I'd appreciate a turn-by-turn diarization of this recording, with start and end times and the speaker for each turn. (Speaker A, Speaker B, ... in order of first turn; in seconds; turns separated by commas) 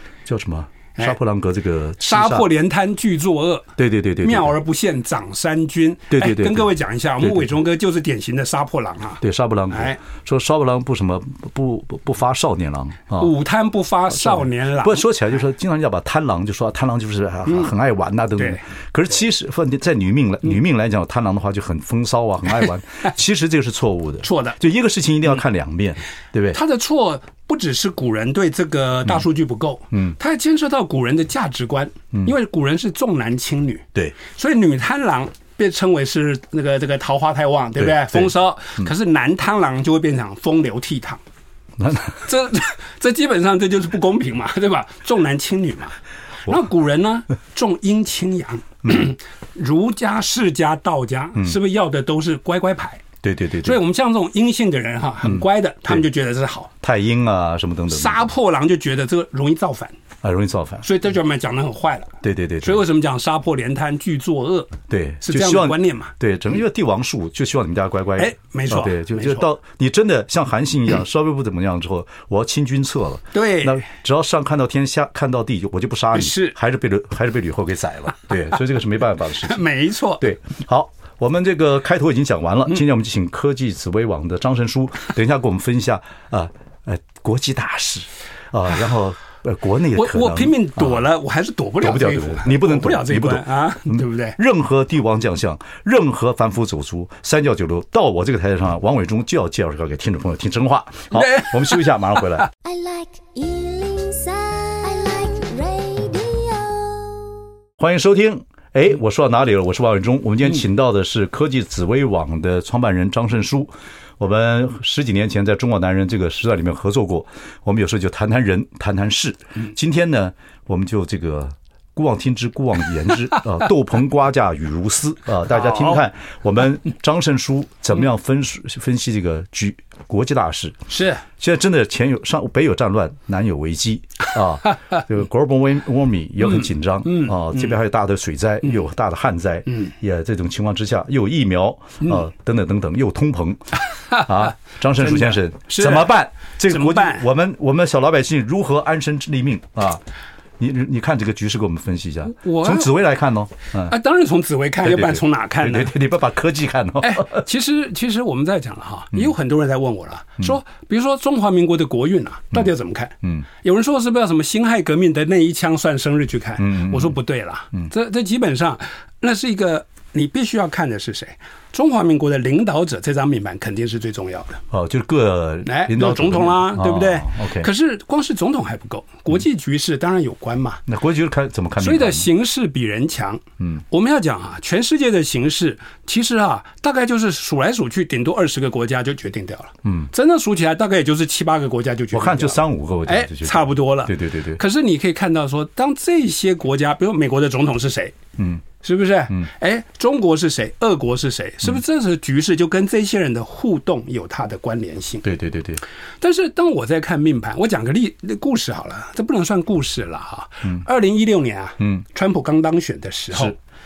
Speaker A: 0.2-2.5, Speaker B: 2.0-3.7, Speaker A: 3.8-4.5, Speaker B: 4.2-10.0, Speaker A: 6.1-6.7, Speaker A: 7.2-7.5, Speaker A: 9.2-13.3, Speaker B: 13.2-15.1, Speaker A: 14.2-26.6, Speaker B: 24.2-24.6, Speaker B: 26.5-41.2, Speaker A: 37.8-38.9, Speaker A: 41.8-42.3, Speaker B: 42.2-53.0, Speaker A: 53.2-53.8, Speaker B: 53.6-56.7, Speaker A: 55.2-56.0, Speaker A: 56.8-58.3, Speaker B: 57.9-60.0, Speaker A: 60.2-60.9, Speaker B: 60.8-66.1, Speaker A: 62.2-62.8, Speaker A: 64.9-79.6, Speaker B: 68.2-69.5, Speaker B: 73.3-73.8, Speaker B: 76.1-76.5, Speaker B: 79.4-80.2, Speaker A: 80.2-91.0, Speaker B: 90.0-94.4, Speaker A: 91.8-102.5, Speaker C: 102.6-107.4, Speaker A: 107.8-130.8, Speaker B: 125.5-126.0, Speaker B: 130.9-131.2, Speaker A: 131.4-150.0, Speaker B: 137.0-137.7, Speaker B: 145.0-146.1, Speaker B: 146.7-147.2, Speaker A: 150.6-153.9, Speaker B: 152.3-152.9, Speaker B: 153.9-155.9, Speaker A: 154.8-157.4, Speaker B: 157.0-174.6, Speaker A: 166.6-167.1, Speaker A: 174.7-177.7, Speaker B: 175.6-180.8, Speaker A: 180.9-182.3, Speaker B: 181.8-198.2, Speaker A: 189.8-190.1, Speaker A: 192.1-194.6, Speaker A: 198.4-198.6, Speaker B: 198.8-205.2, Speaker A: 205.2-205.8, Speaker B: 206.2-213.6